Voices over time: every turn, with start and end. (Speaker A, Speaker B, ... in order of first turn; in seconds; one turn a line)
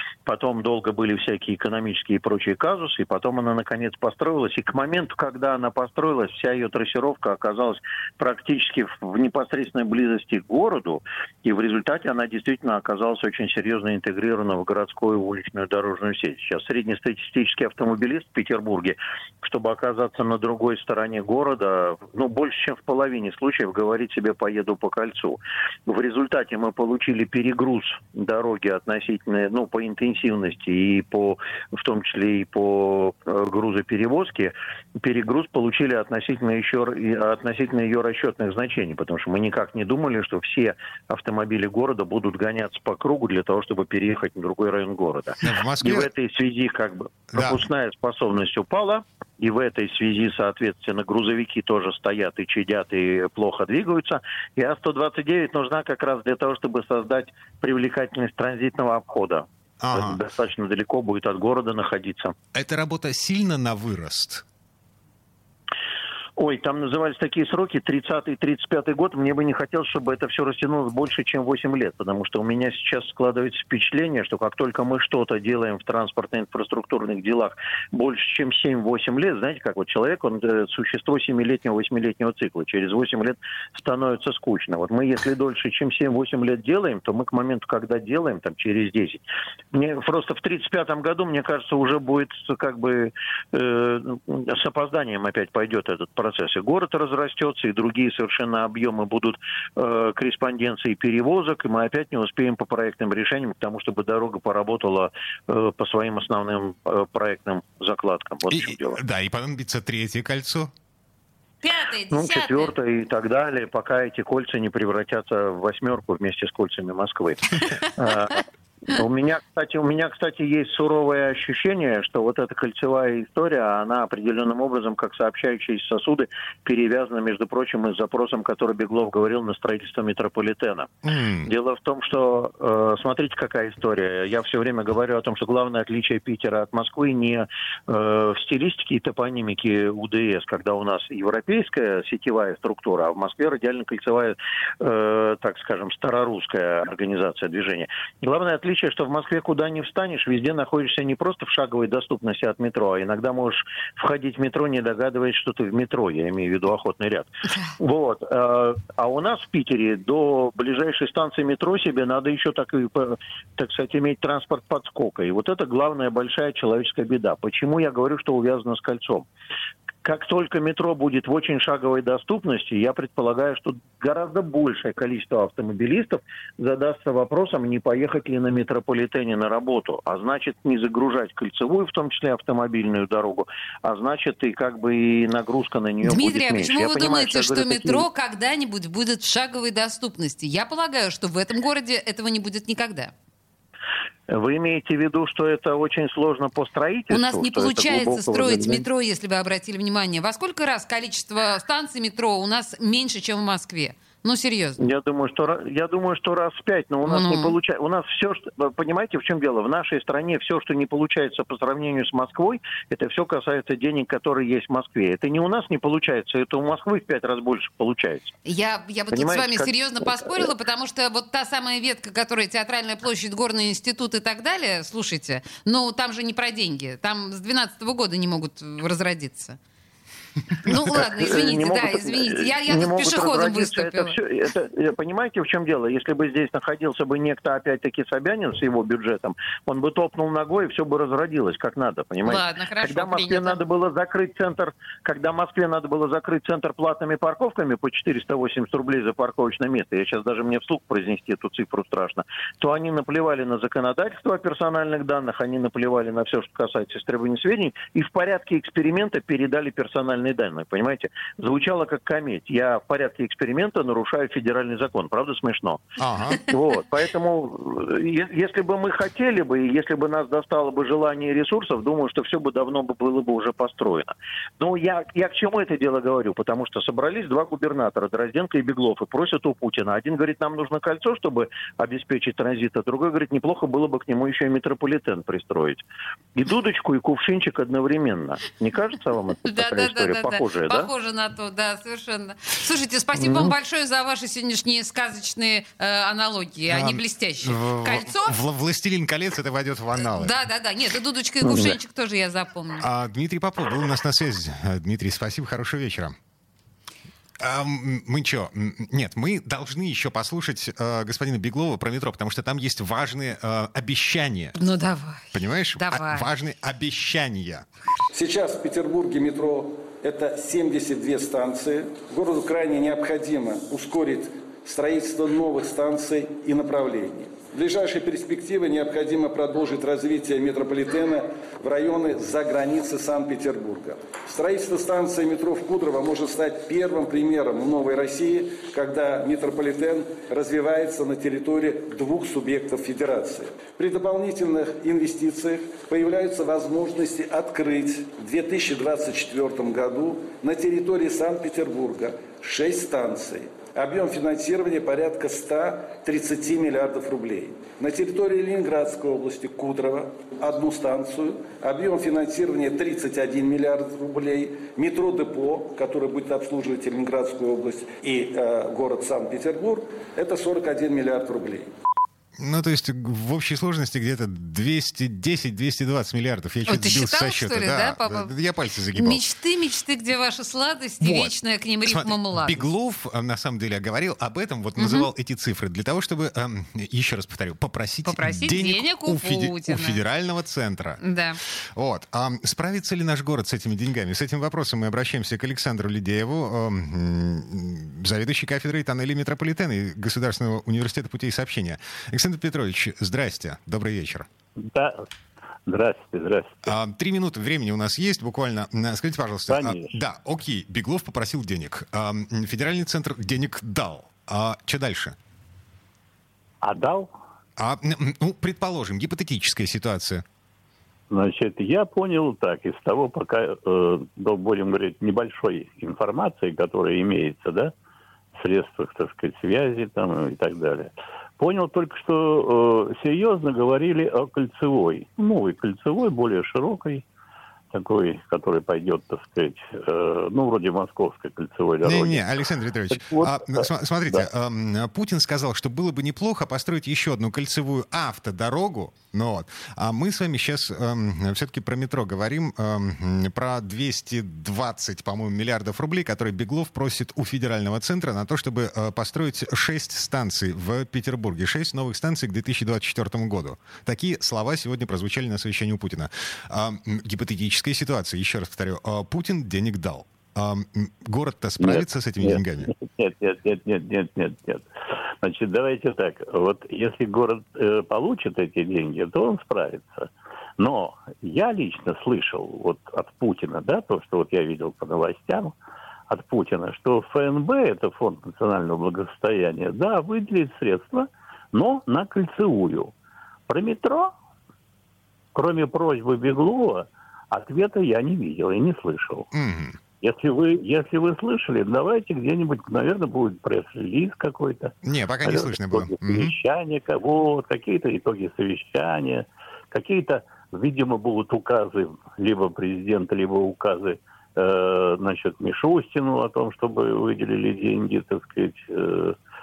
Speaker A: 0.3-62.3
Speaker B: 45.4-46.1
Speaker B: 47.3-47.6
Speaker B: 59.8-60.2
Speaker B: 62.5-64.4
Speaker A: 66.4-109.0
Speaker B: 108.5-110.7
Speaker C: 111.6-112.7
Speaker A: 112.1-130.9
Speaker B: 131.0-131.5
Speaker A: 131.4-169.3
Speaker A: 170.1-188.1
Speaker C: 186.0-193.1
Speaker A: 194.3-198.9
Speaker C: 197.1-204.8
Speaker A: 204.8-218.3
Speaker C: 207.1-207.5
Speaker C: 218.4-229.6
Speaker A: 219.1-220.5
Speaker C: 230.6-234.2
Speaker A: 231.1-265.8
Speaker C: 242.2-243.6
Speaker B: 266.0-266.4
Speaker A: 266.4-285.8
Speaker A: 286.4-290.9
Speaker C: 289.4-298.3
Speaker A: 293.2-293.6
Speaker B: 296.7-300.4
Speaker C: 300.0-302.9
Speaker A: 301.4-301.7
Speaker B: 302.8-306.1
Speaker B: 307.4-314.6
Speaker C: 314.6-316.3
Speaker B: 315.3-317.7
Speaker D: 318.1-371.7
Speaker B: 372.4-379.2
Speaker C: 376.7-378.4
Speaker C: 378.9-382.7
Speaker B: 381.0-391.0
Speaker C: 384.8-385.1
Speaker C: 388.1-390.0
Speaker C: 391.0-391.4
Speaker B: 391.8-404.3
Speaker E: 404.6-405.1
Speaker E: 405.7-406.7
Speaker B: 406.6-415.2
Speaker E: 409.5-409.9
Speaker E: 416.6-417.1
Speaker B: 417.6-420.2
Speaker E: 421.1-427.7
Speaker E: 428.4-437.0
Speaker E: 437.7-442.3
Speaker B: 441.8-472.7
Speaker E: 442.9-444.3
Speaker E: 471.6-474.6
Speaker E: 475.2-485.6
Speaker E: 486.1-492.9
Speaker E: 493.5-494.1
Speaker E: 495.4-499.3
Speaker B: 499.3-499.8
Speaker E: 500.0-519.1
Speaker B: 504.8-506.3